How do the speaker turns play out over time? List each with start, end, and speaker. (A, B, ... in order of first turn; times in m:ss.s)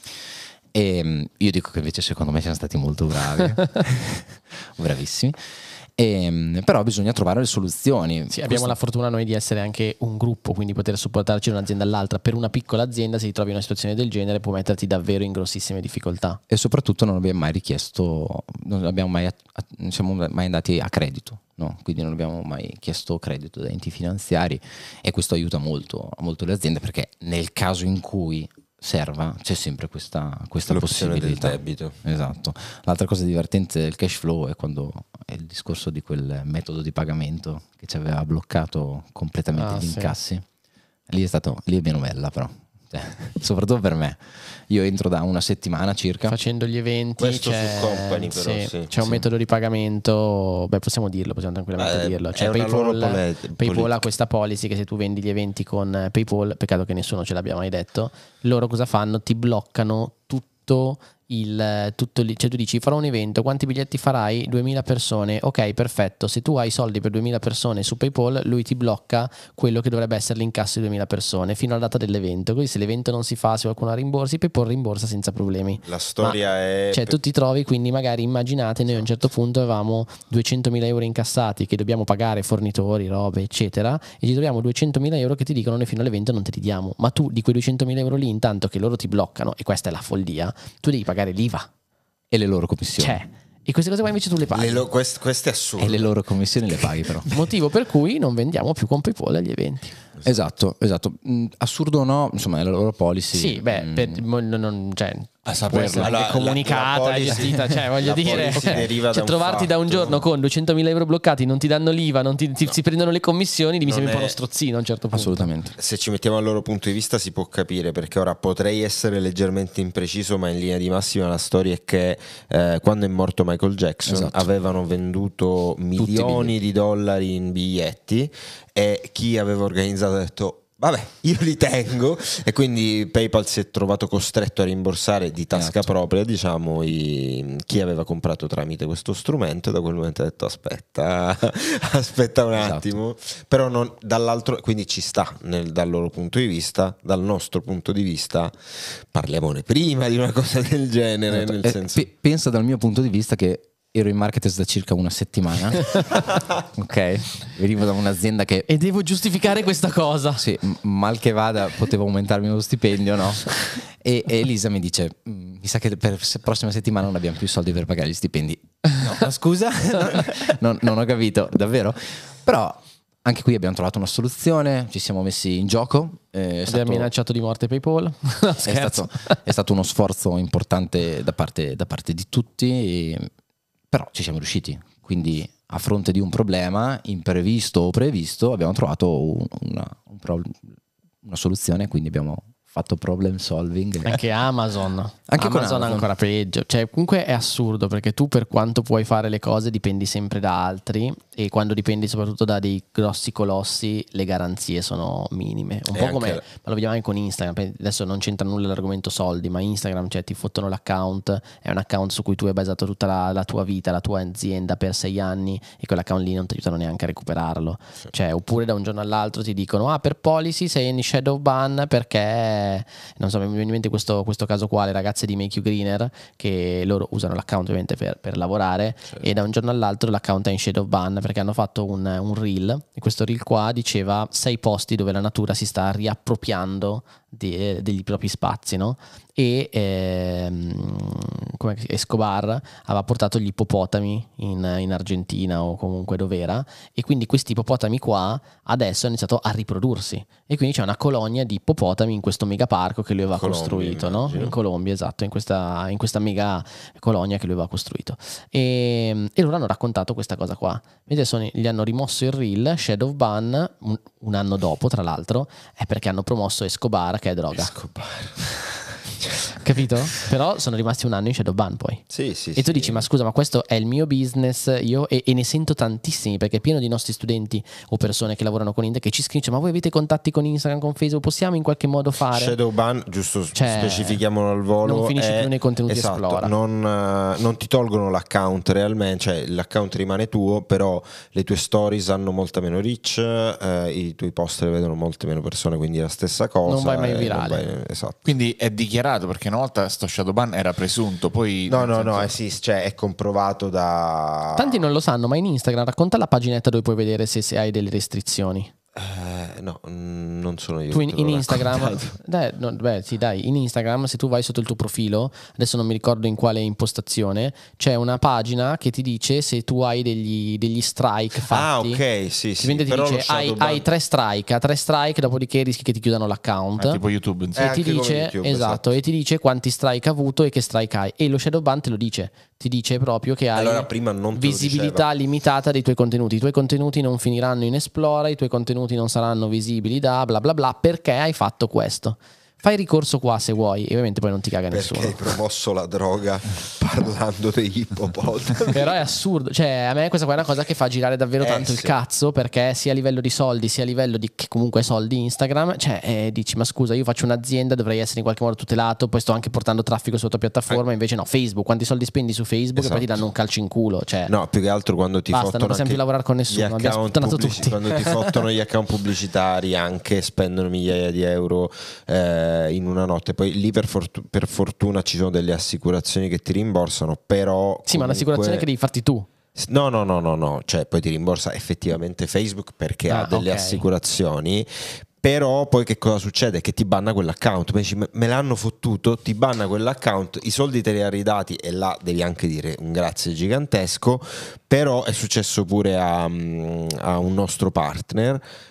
0:00.7-0:05.4 A
0:06.0-0:08.7 A
0:08.3-0:16.4 B
0:16.5-0:40.4 A
0:30.7-0:32.0 C
0:39.5-0:40.1 B
0:41.1-0:46.3 A
0:46.3-1:16.4 B
0:47.2-0:48.9 C
0:49.0-0:49.2 A
0:51.8-0:54.0 C
1:15.8-1:17.2 C
1:16.9-1:31.7 B
1:32.3-1:33.2 A
1:33.0-1:34.8 B
1:34.5-1:36.1 C
1:35.8-1:37.3 A
1:37.3-1:40.0 B
1:40.2-1:44.2 A
1:43.3-1:55.5 B
1:45.4-1:46.1 D
1:46.0-1:50.2 C
1:53.8-1:54.4 C
1:55.1-1:55.7 A
1:55.8-2:32.1 C
2:04.0-2:04.5 A
2:06.0-2:06.5 A
2:15.5-2:15.9 A
2:22.6-2:22.9 A
2:31.3-2:36.0 A
2:36.7-2:38.7 A
2:38.7-2:40.4 B
2:40.4-2:57.1 A
2:56.7-2:59.4 B
2:58.6-3:03.3 A
3:03.9-3:14.2 A
3:14.0-4:27.7 B
3:15.3-3:16.1 A
3:25.9-3:26.4 C
4:13.4-4:14.5 C
4:27.5-4:29.3 C
4:29.6-4:32.0 B
4:32.1-4:33.0 C
4:32.6-4:42.6 B
4:42.3-4:58.2 C
4:43.5-4:44.2 B
4:44.8-4:46.5 B
4:56.6-4:57.6 B
4:58.2-5:02.4 D
5:01.7-5:04.9 C
5:04.5-5:08.7 B
5:08.9-5:12.1 C
5:10.9-5:22.0 B
5:21.5-5:23.8 C
5:22.6-5:27.0 B
5:26.8-5:27.6 D
5:27.5-5:28.9 C
5:27.6-5:45.2 B
5:33.5-5:35.1 C
5:44.7-5:49.0 C
5:48.7-6:04.3 B
5:51.4-5:51.9 C
6:02.8-6:03.1 C
6:04.3-6:18.6 C
6:05.3-6:08.3 B
6:17.9-6:19.3 B
6:19.6-6:38.4 C
6:23.1-6:23.8 B